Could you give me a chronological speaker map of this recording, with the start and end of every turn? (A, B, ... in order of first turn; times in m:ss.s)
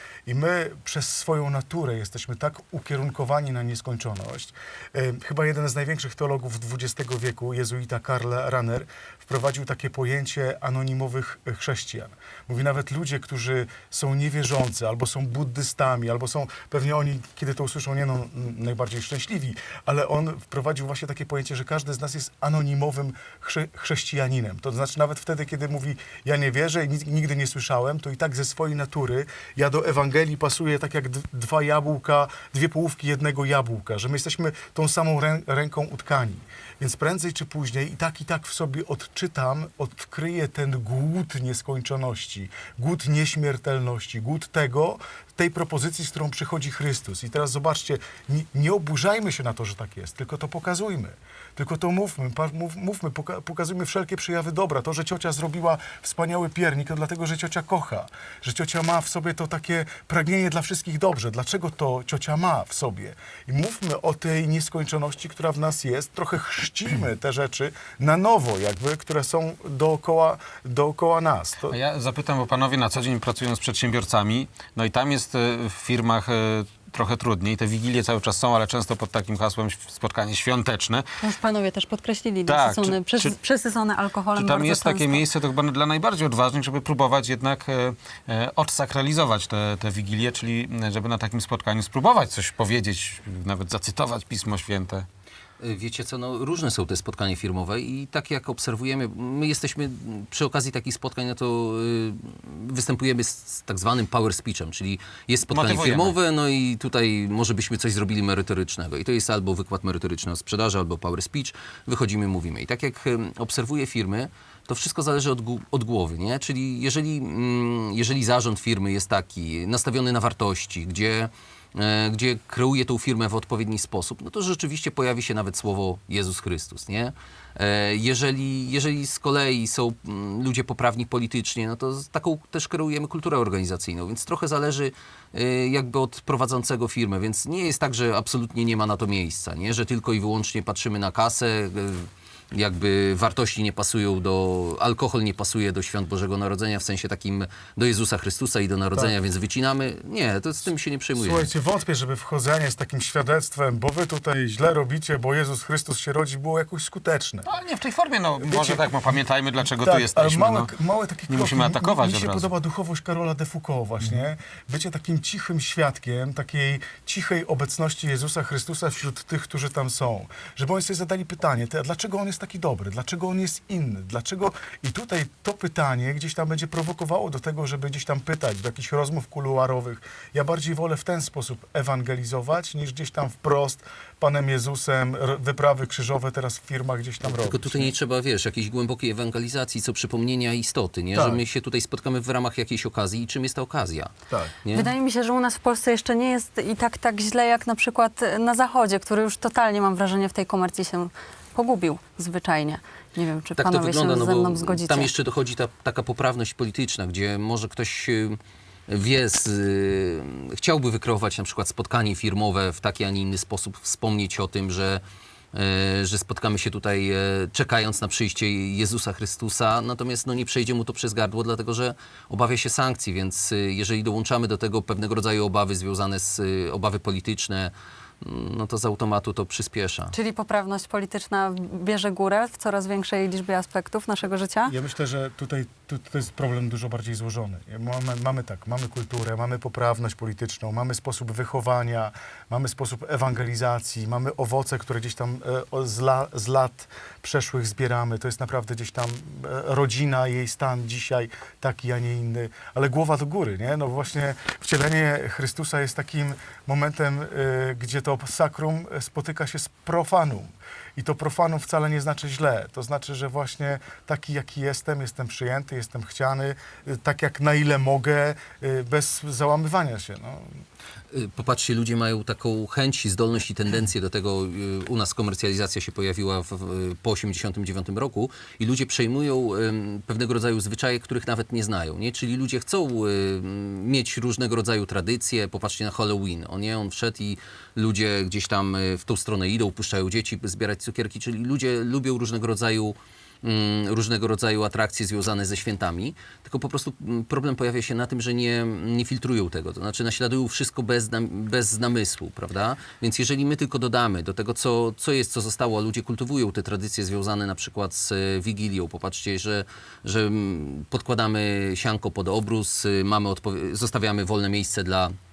0:00.3-1:11.8 A
1:11.7-1:21.0 B
1:21.2-1:25.2 C
1:22.5-1:23.4 B
1:24.4-1:35.1 B
1:35.6-2:31.5 D
1:45.5-1:46.2 B
2:31.2-2:37.5 A
2:37.5-2:40.7 B
2:38.4-2:39.0 A
2:39.7-3:07.9 A
2:41.3-2:42.5 B
3:07.2-3:14.1 D
3:11.1-3:11.4 A
3:14.3-3:14.6 A
3:14.6-3:14.9 D
3:14.7-3:25.1 C
3:23.6-3:35.0 D
3:35.5-3:50.2 D
3:50.1-3:54.8 C
3:54.7-4:30.6 A
4:31.1-5:15.2 D